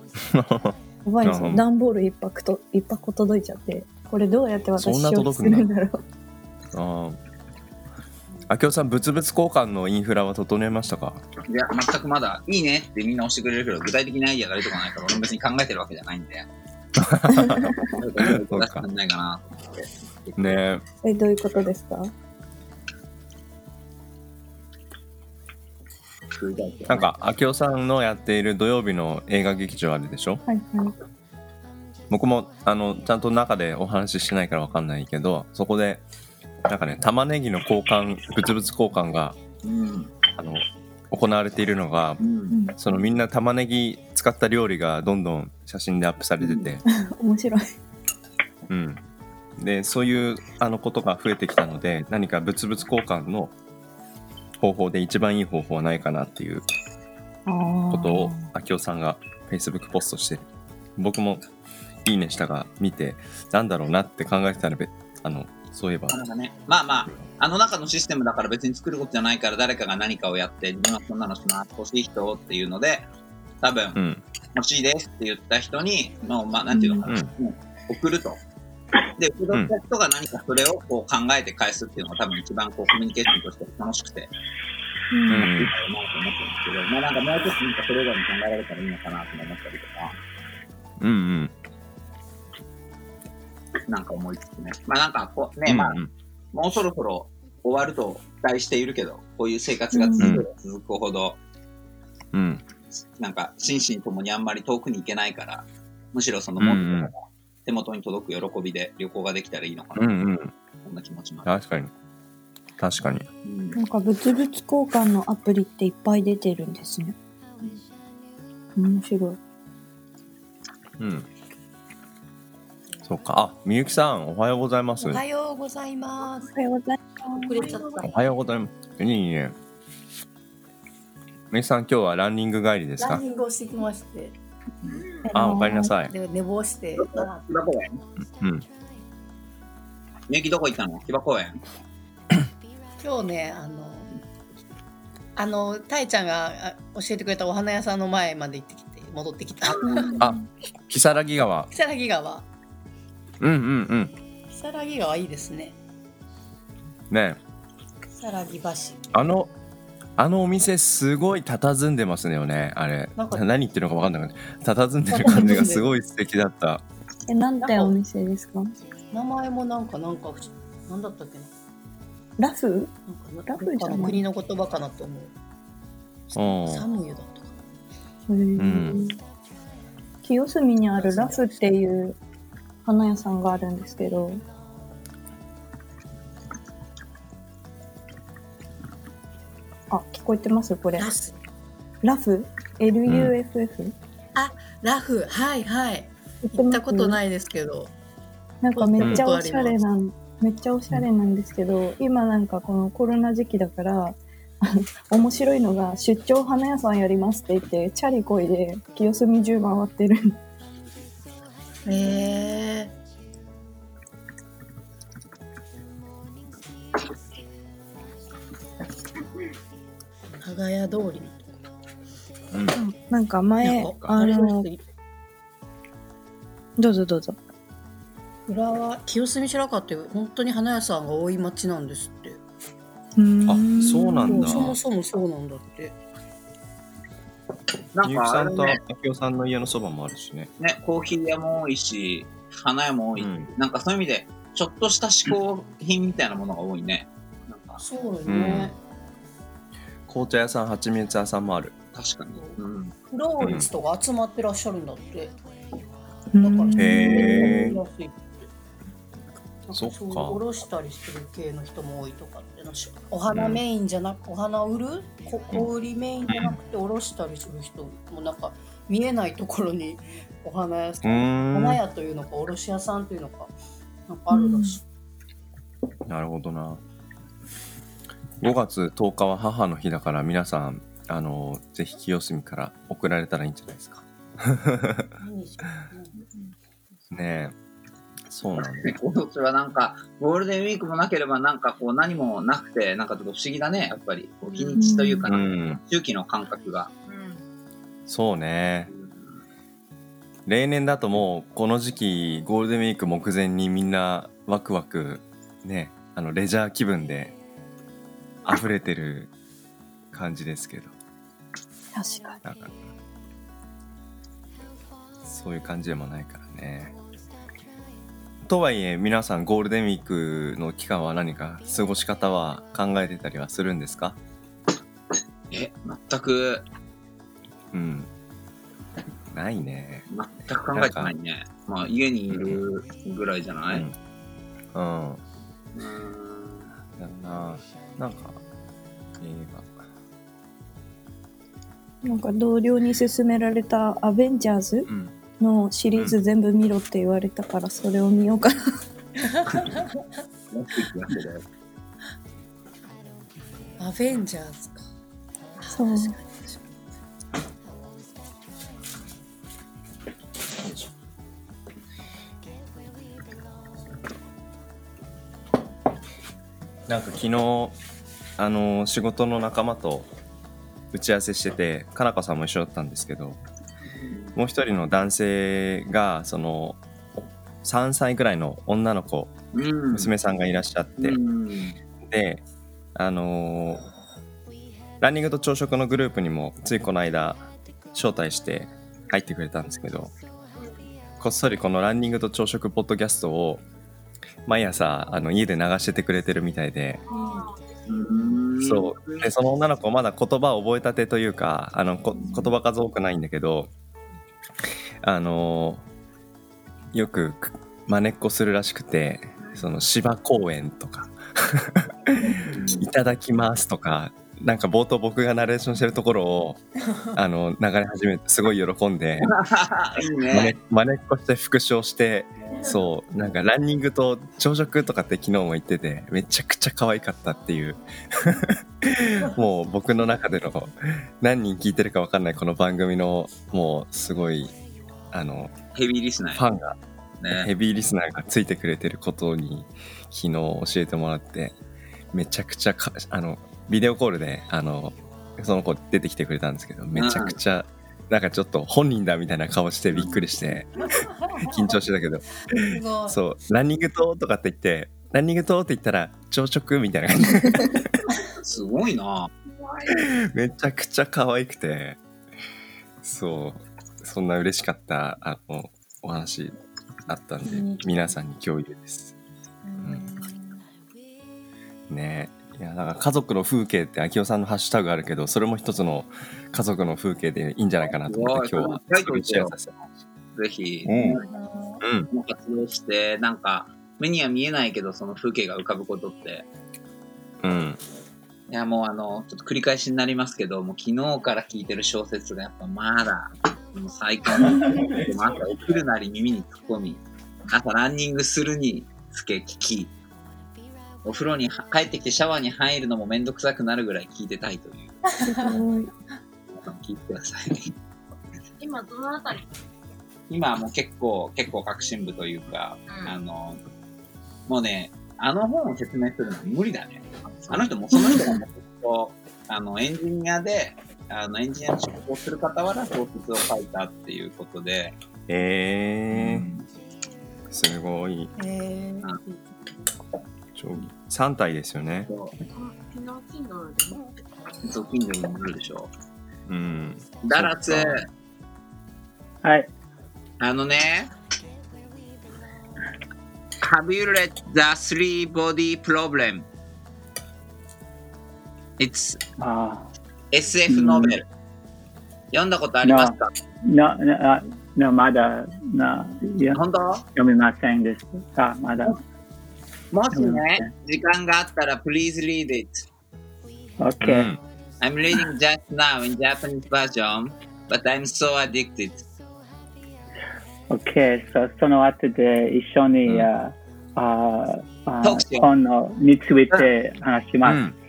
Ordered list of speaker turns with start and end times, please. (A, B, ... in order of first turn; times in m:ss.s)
0:00.2-0:01.6 A
0:01.0-0:06.0 B
0:04.8-0:05.7 A
0:06.7-0:07.2 A
0:08.5-0:11.2 A
0:11.5-0:16.5 C
0:17.0-0:18.8 A
0:17.3-0:17.8 B
0:18.0-0:20.6 C
0:20.4-0:20.8 A
0:21.0-0:22.1 B
0:26.4-0:27.1 C
0:26.9-0:30.4 A
0:30.4-0:30.9 B
0:32.1-0:36.0 A
0:36.7-0:39.4 A
0:39.6-0:40.1 C
0:40.4-0:42.2 A
0:42.2-0:42.5 C
0:42.5-0:42.8 B
0:42.8-0:46.8 A
0:46.4-0:46.7 C
0:46.9-0:47.7 B
0:48.7-0:49.0 A
0:49.6-0:53.5 A
0:54.6-0:56.6 A
0:57.4-0:58.4 B
0:57.9-1:00.4 A
1:01.0-1:01.5 A
1:02.0-1:06.2 A
1:06.1-1:13.1 C
1:13.6-1:14.0 C
1:13.9-1:14.2 A
1:14.5-1:18.4 C
1:16.7-1:17.1 B
1:17.0-1:17.3 A
1:19.2-1:24.3 C
1:25.1-1:25.5 B
1:25.3-1:25.7 A
1:25.6-1:30.2 C
1:31.0-1:31.5 A
1:33.9-1:36.0 C
1:35.6-1:36.1 A
1:36.5-1:41.4 C
1:39.9-1:40.4 B
1:40.2-1:40.4 A
1:42.3-1:42.6 A
1:43.2-1:50.2 C
1:46.6-1:47.1 A
1:50.0-1:50.5 A
1:50.8-1:51.6 C
1:51.4-1:51.9 A
1:52.8-1:53.3 A
1:53.4-1:53.8 C
1:53.8-1:57.2 B
1:58.8-1:59.4 B
2:01.0-2:01.3 A
2:03.0-2:05.2 A
2:05.0-2:06.5 D
2:06.5-2:07.7 B
2:07.4-2:08.1 D
2:07.6-2:08.0 E
2:08.0-2:09.5 A
2:11.5-2:13.2 A
2:13.0-2:14.4 D
2:15.2-2:15.9 B
2:15.3-2:16.1 A
2:16.0-2:17.4 D
2:17.0-2:18.0 C
2:18.4-2:18.6 A
2:20.3-2:21.6 C
2:23.0-2:24.1 D
2:25.4-2:30.2 D
2:29.8-2:30.4 B
2:30.2-2:31.7 A
2:31.7-2:32.5 D
2:33.4-2:34.1 A
2:34.5-2:35.8 D
2:37.1-2:37.4 A
2:38.1-2:39.0 D
2:39.1-2:39.5 A
2:40.2-2:46.8 A
2:43.2-2:43.4 D
2:45.1-2:45.9 D
2:47.3-2:48.7 B
2:47.6-2:47.9 D
2:49.1-2:51.5 D
2:52.4-2:52.9 B
2:53.1-2:55.3 D
2:53.5-2:54.2 B
2:56.3-2:57.5 D
2:56.3-2:56.9 A
2:58.3-2:59.2 B
2:58.6-2:59.1 A
3:00.2-3:02.2 B
3:01.0-3:01.8 D
3:02.8-3:04.4 B
3:09.9-3:11.1 B
3:11.0-3:11.4 D
3:12.0-3:13.9 B
3:13.0-3:13.3 A
3:14.3-3:17.9 D
3:16.4-3:17.2 B
3:18.6-3:30.4 B
3:18.7-3:19.8 D
3:19.0-3:19.2 A
3:31.8-3:32.9 D
3:40.4-3:41.6 D
3:42.5-3:42.8 A
3:42.7-3:44.7 B
3:43.6-3:44.1 A
3:43.6-3:44.8 D
3:46.8-3:47.4 B
3:48.5-3:52.4 D
3:53.2-3:54.7 B
3:53.5-3:54.8 A
3:54.3-3:56.0 D
3:57.9-3:58.8 C
3:58.0-4:00.5 A
4:00.6-4:07.8 C
4:03.2-4:03.5 A
4:07.8-4:08.8 D
4:08.2-4:08.7 A
4:10.1-4:11.7 A
4:11.9-4:12.9 C
4:12.4-4:15.4 D
4:13.4-4:13.7 A
4:16.3-4:17.8 B
4:16.4-4:18.5 D
4:16.8-4:17.8 A
4:19.6-4:33.5 D
4:19.7-4:20.4 A
4:23.3-4:23.6 A
4:26.3-4:26.6 A
4:31.0-4:31.8 A
4:34.1-4:34.8 D
4:34.3-4:34.8 B
4:36.1-4:36.8 A
4:38.4-4:45.1 A
4:45.2-4:46.1 D
4:47.1-4:47.5 A
4:48.3-4:49.0 A
4:48.8-4:56.9 C
4:54.8-4:55.3 B
4:55.3-4:55.8 A
4:57.0-4:57.4 E
4:58.1-4:58.9 A
5:00.4-5:07.3 A
5:08.4-5:09.3 A
5:10.1-5:10.9 A
5:11.9-5:12.4 B
5:12.4-5:12.8 A
5:15.2-5:16.9 A
5:18.4-5:24.2 A
5:25.5-5:26.6 C
5:27.7-5:28.1 A
5:29.3-5:30.0 A
5:30.1-5:33.9 C
5:30.7-5:31.1 A
5:32.3-5:32.6 A
5:33.7-5:33.9 A
5:34.7-5:35.2 A
5:35.7-5:36.7 C
5:36.9-5:38.4 A
5:39.2-5:39.8 A
5:42.0-5:48.6 B
5:44.8-5:45.1 A
5:49.2-5:50.0 D
5:50.5-5:51.4 C
5:53.8-5:54.8 D
5:55.6-5:56.6 D
5:55.7-5:56.2 B
6:06.9-6:07.8 A
6:08.4-6:10.1 A
6:10.9-6:13.4 A
6:14.0-6:14.3 C
6:14.4-6:16.8 A
6:17.6-6:19.3 A
6:19.5-6:20.1 C
6:19.9-6:21.2 A
6:21.0-6:21.8 C
6:22.0-6:22.4 A
6:22.9-6:23.9 A
6:25.0-6:30.1 A
6:30.5-6:30.8 E
6:31.2-6:33.6 A
6:34.4-6:37.0 A
6:37.1-6:38.4 E
6:37.9-6:39.3 C
6:38.6-6:43.7 A
6:45.0-6:45.8 A
6:46.9-6:56.6 A
6:49.4-6:49.6 E
6:52.5-6:52.8 C
6:57.1-6:59.3 A
6:59.2-7:00.5 C
7:00.3-7:14.5 A
7:15.1-7:15.5 A
7:15.7-7:16.4 C
7:16.4-7:16.8 A
7:17.2-7:17.5 C
7:17.3-7:21.5 A
7:22.1-7:38.0 A
7:26.9-7:27.4 C
7:29.9-7:30.2 C
7:30.9-7:31.7 D
7:32.5-7:33.2 D
7:38.4-7:39.3 C
7:39.4-7:40.1 E
7:39.9-7:42.0 A
7:43.0-7:46.5 A
7:47.1-7:49.1 A
7:47.4-7:48.1 D
7:49.6-7:50.6 D
7:49.8-7:50.1 A
7:51.9-7:59.9 A
7:57.8-7:59.5 C
8:00.3-8:01.2 C
8:00.8-8:01.2 A
8:01.3-8:01.8 D
8:01.8-8:02.1 A
8:02.1-8:06.5 C
8:07.4-8:07.8 A
8:08.5-8:19.9 C
8:14.3-8:15.7 A
8:21.0-8:25.0 C
8:25.1-8:25.6 D
8:25.2-8:25.9 B
8:26.5-8:27.7 C
8:28.6-8:29.5 E
8:30.3-8:33.6 C
8:32.9-8:33.2 E
8:34.5-8:45.0 C
8:37.3-8:37.6 E
8:45.3-8:46.5 A
8:46.1-8:46.6 C
8:47.5-8:48.3 A
8:48.4-8:49.9 D
8:50.5-8:52.1 A
8:52.1-8:52.3 C
8:52.5-8:54.1 E
8:54.6-8:55.9 C
8:56.5-8:58.0 A
8:57.2-8:58.1 C
8:59.4-8:59.7 F
9:00.4-9:01.1 C
9:03.6-9:06.4 C
9:08.8-9:09.2 C
9:09.4-9:09.9 F
9:10.3-9:11.2 C
9:10.7-9:11.2 F
9:12.3-9:13.3 C
9:12.8-9:16.6 F
9:16.5-9:17.0 C
9:17.1-9:19.0 F
9:19.9-9:22.8 C
9:20.1-9:20.7 F
9:23.8-9:24.3 F
9:24.0-9:24.4 A
9:24.8-9:29.0 C
9:30.7-9:37.6 F
9:35.0-9:35.5 C
9:37.4-9:37.7 A